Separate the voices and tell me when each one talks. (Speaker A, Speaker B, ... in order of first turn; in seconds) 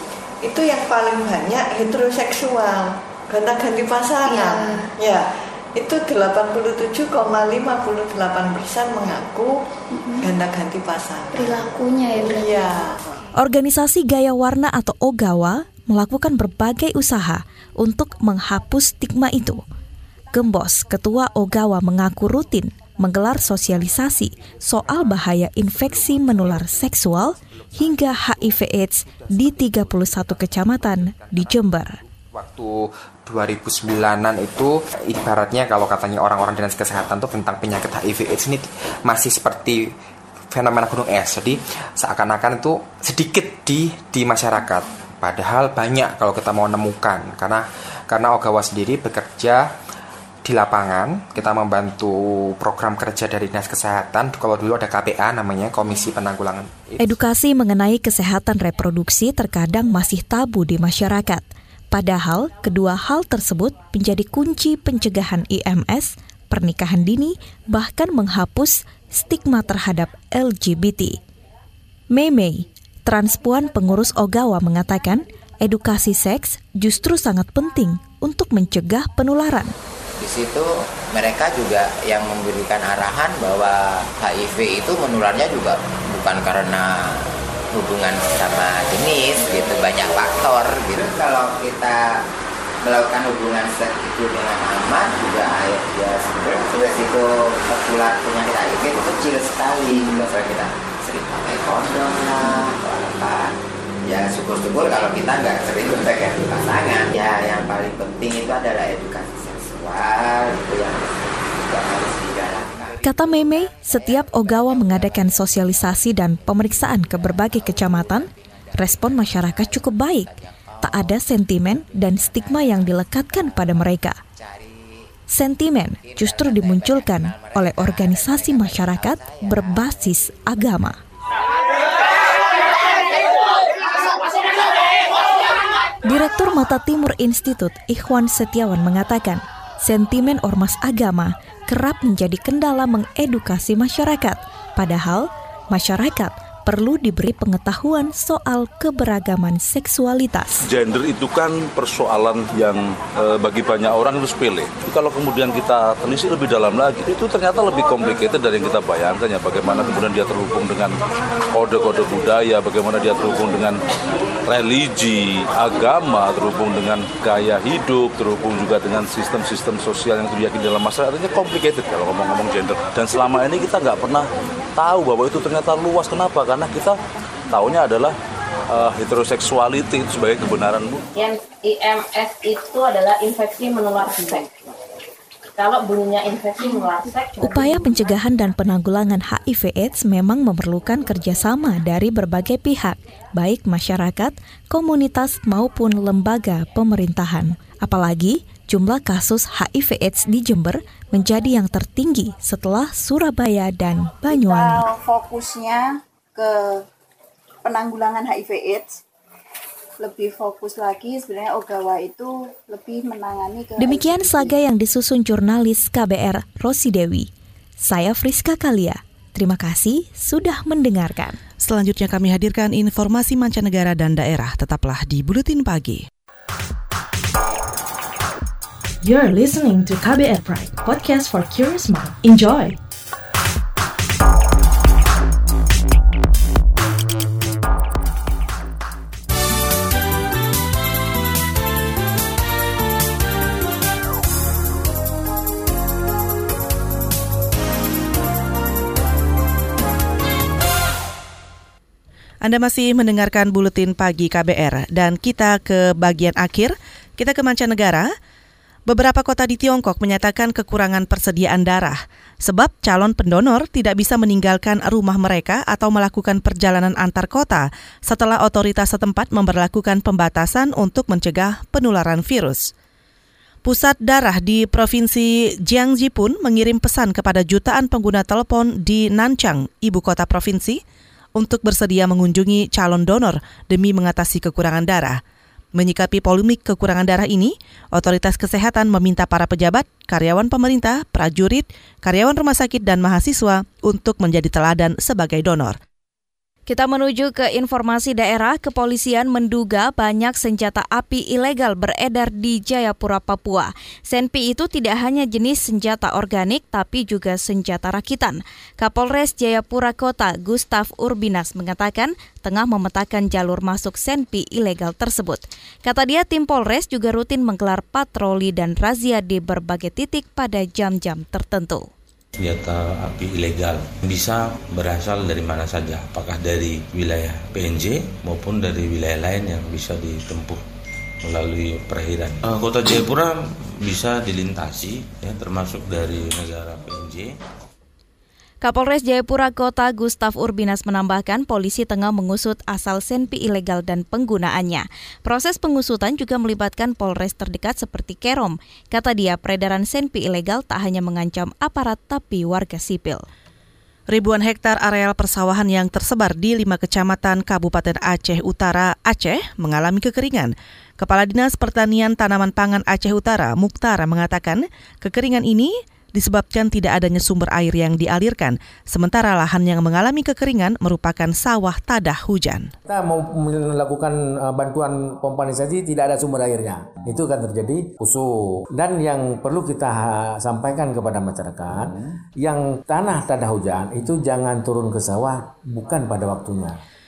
Speaker A: 0.4-13.2
Speaker B: 13.4-19.6, 20.3-31.9, 57.0-71.2, 72.1-79.7, 113.0-124.2, 125.3-131.0, 136.0-150.6, 187.4-204.8, 213.8-217.3, 217.8-221.4, 296.7-321.9, 338.6-353.2
Speaker C: 24.9-25.1, 25.8-26.9, 27.4-39.9, 40.5-49.7, 50.4-57.2
Speaker D: 80.2-92.2, 92.8-103.5, 104.0-121.1, 122.0-122.9, 124.3-125.0, 126.0-130.2
Speaker E: 150.6-160.9, 161.5-163.8, 164.4-178.2, 178.7-181.1
Speaker F: 181.1-184.5, 185.6-187.4
Speaker G: 204.2-206.8, 207.6-209.0, 210.0-214.5
Speaker H: 221.6-226.1, 252.4-258.1, 258.9-272.7, 273.6-280.8, 281.4-285.2, 285.7-295.8, 354.1-372.7
Speaker I: 229.0-232.8
Speaker J: 322.4-330.6, 331.2-337.4
Speaker K: 372.9-386.8